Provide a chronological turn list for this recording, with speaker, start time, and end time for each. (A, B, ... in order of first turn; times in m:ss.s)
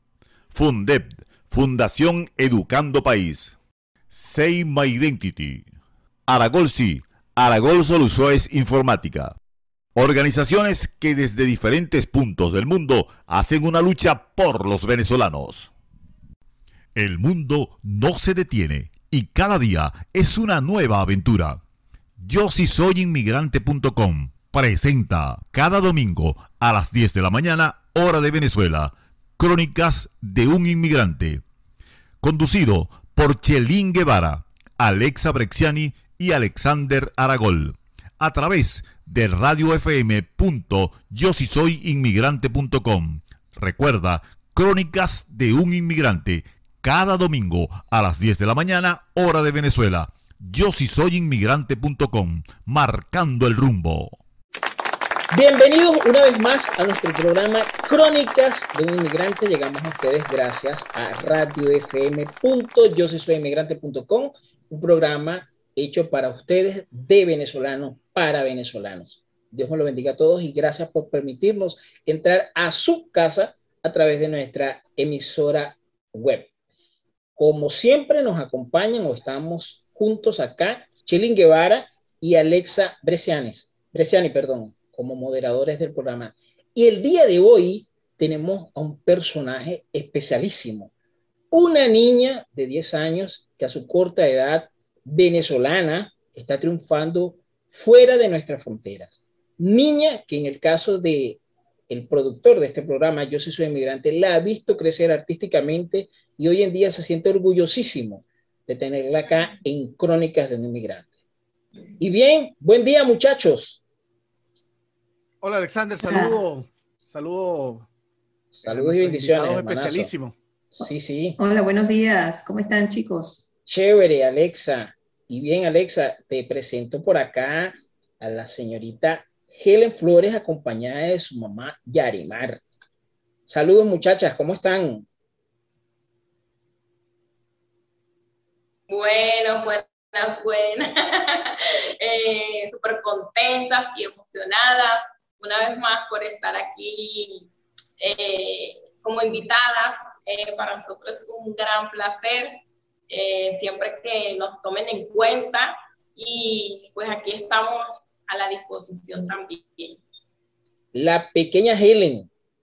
0:00.5-0:03.6 A
0:04.1-0:05.7 A
0:06.3-0:09.4 A
0:10.0-0:15.7 A
0:17.0-0:21.6 A
0:22.2-0:31.4 A
0:32.2-0:54.2 A
0:55.3-1:16.5 B
1:17.4-1:30.9 B
1:31.5-1:51.1 B
1:52.0-1:53.8 B
1:55.4-1:57.9 C
1:56.0-1:56.4 D
1:58.6-2:00.1 B
1:58.6-2:00.4 C
2:00.7-2:01.4 B
2:01.4-2:03.4 D
2:03.7-2:12.6 B
2:13.5-2:15.1 B
2:18.9-2:40.0 E
2:40.9-2:42.3 B